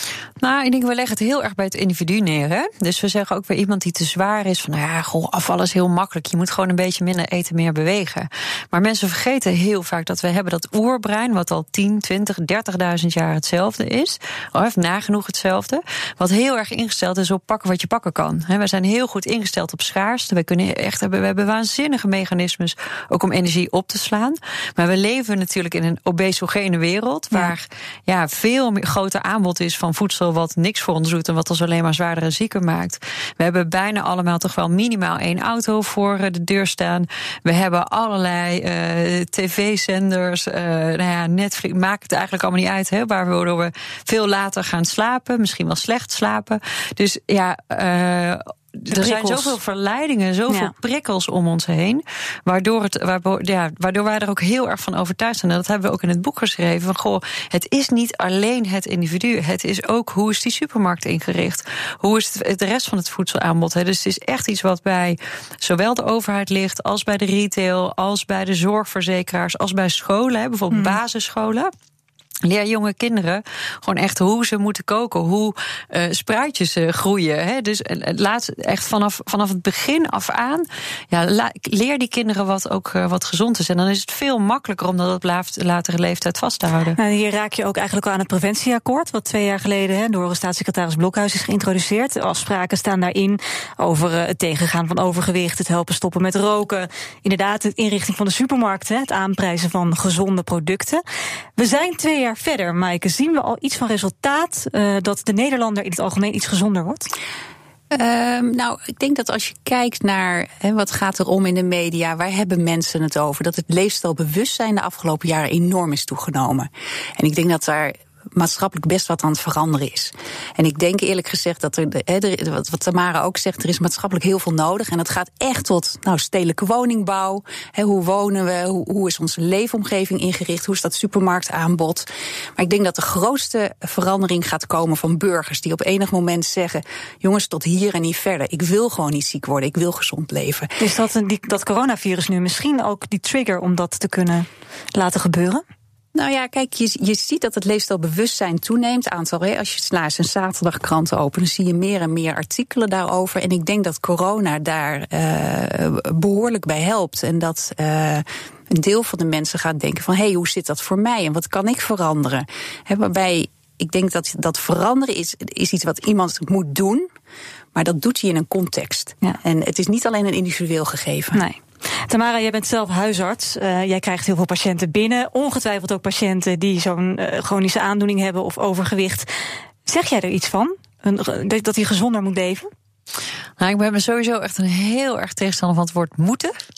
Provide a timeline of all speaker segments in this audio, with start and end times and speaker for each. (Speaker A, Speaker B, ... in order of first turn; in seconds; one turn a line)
Speaker A: 0.4-71.7
Speaker B: 48.9-49.6
Speaker B: 70.7-71.0
Speaker A: 72.4-87.0
Speaker B: 87.0-101.0
Speaker B: 101.6-107.1
Speaker C: 107.9-140.7
Speaker B: 140.8-145.6
Speaker C: 146.1-167.1
Speaker C: 167.7-171.4
Speaker B: 171.3-179.3
Speaker B: 179.8-182.7
Speaker A: 183.6-186.5